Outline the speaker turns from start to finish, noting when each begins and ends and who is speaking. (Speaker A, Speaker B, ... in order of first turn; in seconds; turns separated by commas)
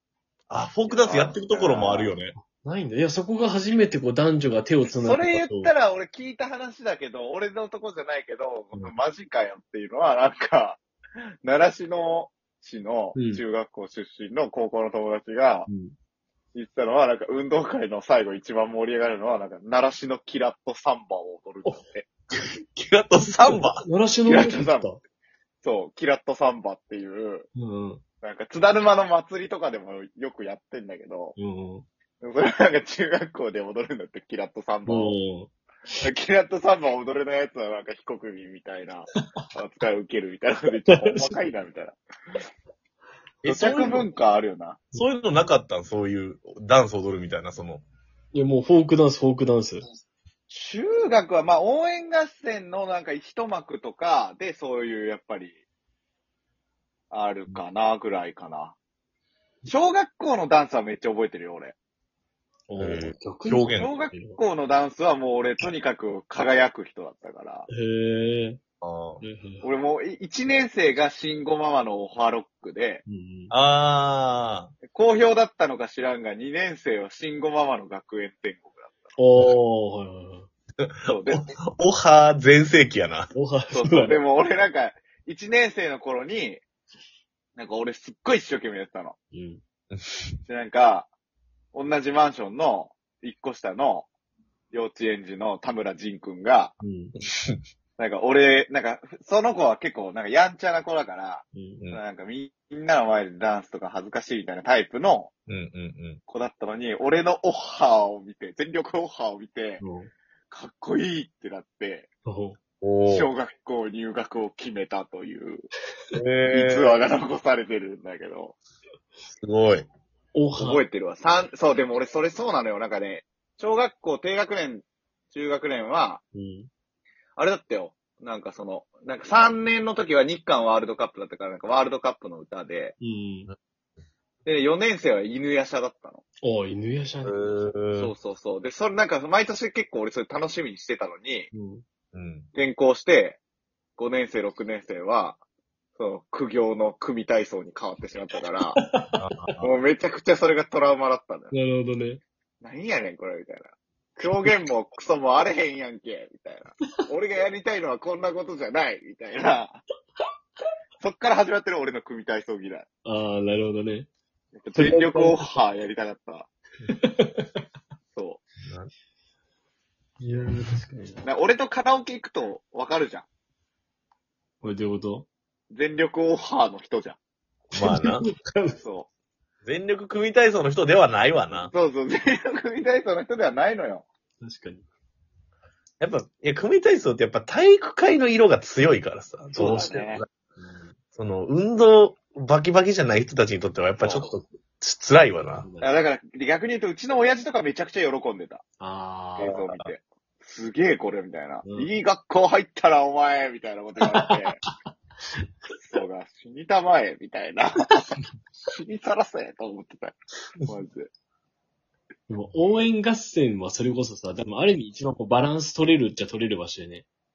Speaker A: 0.5-2.3, Speaker B: 0.9-2.1, Speaker C: 2.6-5.7, Speaker B: 4.9-10.8, Speaker B: 11.4-15.7, Speaker C: 13.1-13.4, Speaker C: 15.7-15.9, Speaker B: 16.5-22.1, Speaker A: 22.3-23.8, Speaker C: 23.4-25.0, Speaker B: 24.2-24.9, Speaker B: 25.6-27.5, Speaker C: 27.6-28.0, Speaker B: 28.2-31.4, Speaker C: 31.4-31.9, Speaker B: 32.2-35.2, Speaker C: 34.9-35.5, Speaker B: 36.0-42.0, Speaker C: 40.9-41.4, Speaker A: 43.4-44.1, Speaker B: 43.5-44.8, Speaker A: 44.9-47.8, Speaker C: 48.3-49.8, Speaker B: 50.5-55.6, Speaker B: 57.1-58.8, Speaker B: 59.7-61.8, Speaker C: 62.7-64.4, Speaker A: 62.8-63.9, Speaker B: 63.7-67.7, Speaker C: 67.7-68.6, Speaker A: 68.8-69.2, Speaker C: 69.2-69.6, Speaker B: 69.6-73.0, Speaker C: 73.1-73.5, Speaker A: 73.5-74.7, Speaker B: 74.9-79.1, Speaker C: 79.2-80.5, Speaker A: 80.8-83.3, Speaker B: 81.0-81.4, Speaker C: 83.3-84.2, Speaker B: 83.7-86.6, Speaker B: 87.6-89.2, Speaker C: 89.3-89.6, Speaker A: 89.9-90.2, Speaker B: 90.5-91.1, Speaker B: 91.7-94.1, Speaker B: 94.7-96.7, Speaker C: 96.8-97.1, Speaker A: 97.2-97.6, Speaker B: 98.0-105.3, Speaker C: 101.5-101.8, Speaker A: 105.5-106.2, Speaker B: 106.3-109.8, Speaker C: 109.8-110.1, Speaker B: 110.5-112.1, Speaker C: 112.2-112.6, Speaker A: 112.8-113.3, Speaker B: 113.1-115.7, Speaker A: 116.1-117.0, Speaker B: 116.5-118.6, Speaker A: 119.4-119.9, Speaker C: 120.3-120.8, Speaker B: 120.5-126.2, Speaker C: 126.3-126.7, Speaker B: 127.4-132.9, Speaker C: 133.0-133.5, Speaker B: 134.4-136.2, Speaker C: 136.4-137.7, Speaker A: 137.2-138.1, Speaker B: 138.0-141.5, Speaker C: 141.5-141.8, Speaker A: 142.1-142.5, Speaker B: 142.5-143.4, Speaker B: 144.0-145.4, Speaker B: 146.0-148.8, Speaker C: 148.8-149.2, Speaker A: 149.2-149.7, Speaker B: 149.6-151.5, Speaker C: 151.5-152.2, Speaker B: 152.6-159.8, Speaker C: 154.2-154.6, Speaker B: 161.0-162.9, Speaker C: 163.0-164.1, Speaker B: 164.5-166.5, Speaker C: 164.8-165.4, Speaker C: 166.9-167.5, Speaker B: 168.1-168.4, Speaker A: 168.6-168.9, Speaker C: 170.2-171.2, Speaker B: 171.2-173.3, Speaker C: 174.6-175.3, Speaker B: 175.7-177.2, Speaker C: 177.7-178.8, Speaker A: 177.8-178.2, Speaker B: 178.8-179.1, Speaker A: 179.6-181.7, Speaker B: 181.5-184.0, Speaker C: 184.4-184.8, Speaker A: 186.0-190.3, Speaker C: 189.5-191.0, Speaker B: 189.6-190.2, Speaker A: 191.1-195.7, Speaker B: 194.0-194.3, Speaker C: 195.6-196.0, Speaker B: 195.8-198.6, Speaker C: 198.8-199.5, Speaker B: 199.4-204.6, Speaker A: 199.4-199.9, Speaker C: 201.6-201.9, Speaker C: 204.1-204.7, Speaker B: 205.8-211.1, Speaker C: 212.3-217.1